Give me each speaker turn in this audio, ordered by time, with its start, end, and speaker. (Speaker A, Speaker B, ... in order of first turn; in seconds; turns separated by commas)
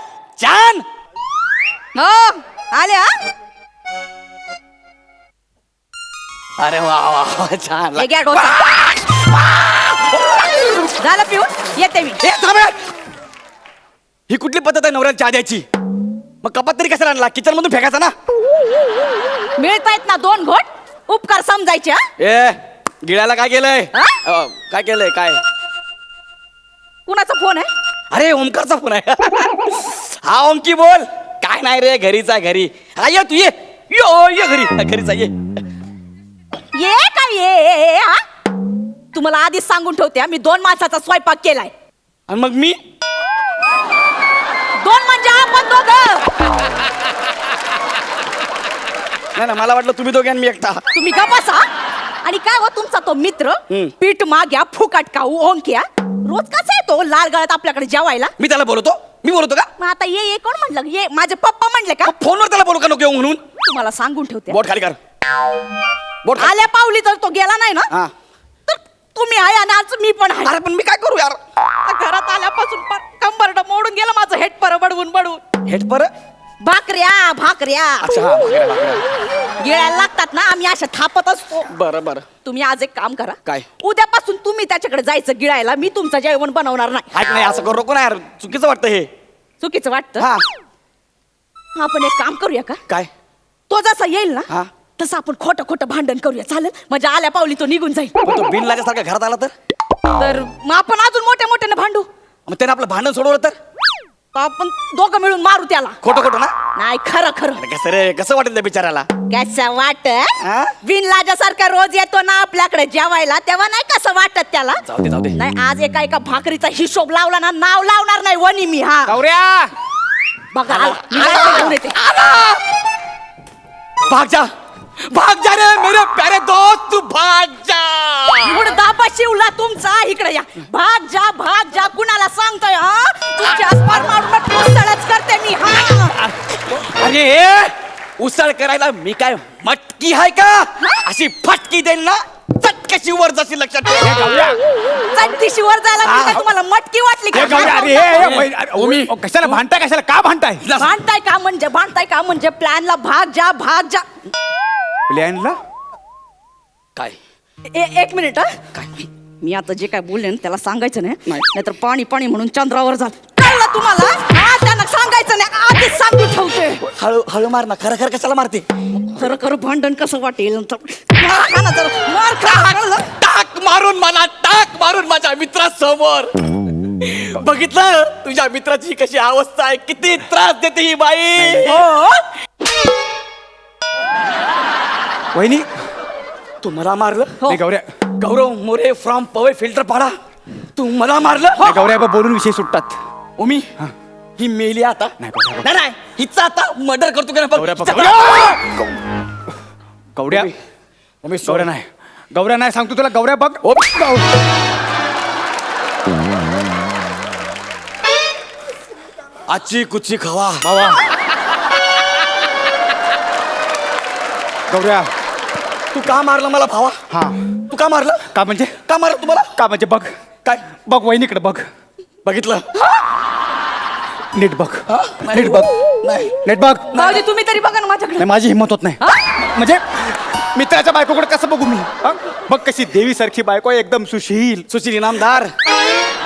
Speaker A: 0.4-0.8, Speaker B: 1.9-3.1, Speaker A: 6.6-10.7, Speaker B: 8.0-8.6, Speaker B: 11.0-12.2, Speaker A: 12.2-12.8, Speaker A: 14.3-15.7, Speaker A: 16.4-18.1, Speaker B: 19.6-22.0, Speaker A: 22.2-25.4, Speaker B: 27.1-27.7, Speaker A: 28.1-35.3, Speaker B: 36.7-38.2, Speaker B: 39.1-41.7, Speaker A: 42.3-42.8, Speaker B: 44.8-46.3, Speaker A: 49.3-50.8, Speaker B: 50.9-51.7, Speaker B: 52.2-58.3, Speaker A: 58.4-59.7, Speaker B: 59.8-62.1, Speaker A: 62.0-63.4, Speaker B: 63.6-64.6, Speaker A: 64.5-65.0, Speaker A: 66.2-66.5, Speaker B: 66.4-67.9, Speaker B: 68.7-70.5, Speaker A: 70.4-71.4, Speaker B: 71.8-75.4, Speaker A: 75.7-76.1, Speaker B: 76.6-78.2, Speaker A: 78.0-79.0, Speaker B: 79.6-81.7, Speaker A: 81.7-82.2, Speaker B: 82.4-87.1, Speaker A: 87.1-89.1, Speaker B: 89.6-90.3, Speaker A: 90.2-90.4, Speaker B: 91.7-92.8, Speaker B: 93.7-98.1, Speaker A: 98.2-99.5, Speaker B: 100.2-102.1, Speaker A: 102.5-103.6, Speaker B: 104.3-106.0, Speaker A: 106.0-106.5, Speaker B: 106.8-107.6, Speaker A: 107.6-109.1, Speaker B: 109.3-114.8, Speaker A: 110.4-110.7, Speaker A: 114.8-115.3, Speaker B: 115.3-119.2, Speaker C: 119.1-119.6, Speaker A: 119.2-119.7, Speaker B: 120.5-122.0, Speaker A: 120.7-122.6, Speaker A: 124.1-124.5, Speaker A: 125.1-128.7, Speaker B: 128.4-136.2, Speaker A: 136.7-144.4, Speaker C: 144.0-144.6, Speaker B: 145.1-148.4, Speaker A: 146.0-146.4, Speaker C: 147.3-150.6, Speaker A: 147.3-149.1, Speaker A: 150.6-150.9, Speaker B: 150.8-154.1, Speaker C: 155.1-155.6, Speaker B: 157.7-158.6, Speaker A: 158.7-159.0, Speaker B: 159.4-166.8, Speaker A: 166.9-168.6, Speaker B: 169.1-173.1, Speaker A: 173.1-176.3, Speaker A: 177.0-181.7, Speaker C: 181.3-181.8, Speaker B: 181.6-182.2, Speaker C: 185.3-185.7, Speaker A: 186.6-187.6, Speaker C: 187.4-187.9, Speaker A: 188.2-190.2, Speaker A: 190.8-191.9, Speaker C: 191.6-192.9, Speaker A: 193.4-193.7, Speaker A: 194.4-198.8, Speaker C: 195.2-195.7, Speaker C: 197.5-198.8, Speaker C: 200.2-200.5, Speaker A: 200.3-200.6, Speaker A: 201.2-201.7, Speaker C: 201.4-203.6, Speaker A: 203.6-204.3, Speaker A: 209.5-210.7, Speaker C: 210.6-211.0, Speaker C: 214.7-215.1, Speaker A: 215.9-217.0, Speaker C: 217.1-217.4, Speaker A: 217.7-218.2, Speaker C: 218.3-218.8, Speaker A: 218.8-219.5, Speaker C: 219.5-220.1, Speaker C: 220.8-221.6, Speaker A: 222.2-222.7, Speaker C: 224.3-225.7, Speaker A: 224.9-226.3, Speaker C: 226.4-227.1, Speaker B: 226.9-228.3, Speaker C: 228.2-234.7, Speaker B: 229.0-229.3, Speaker A: 234.7-235.5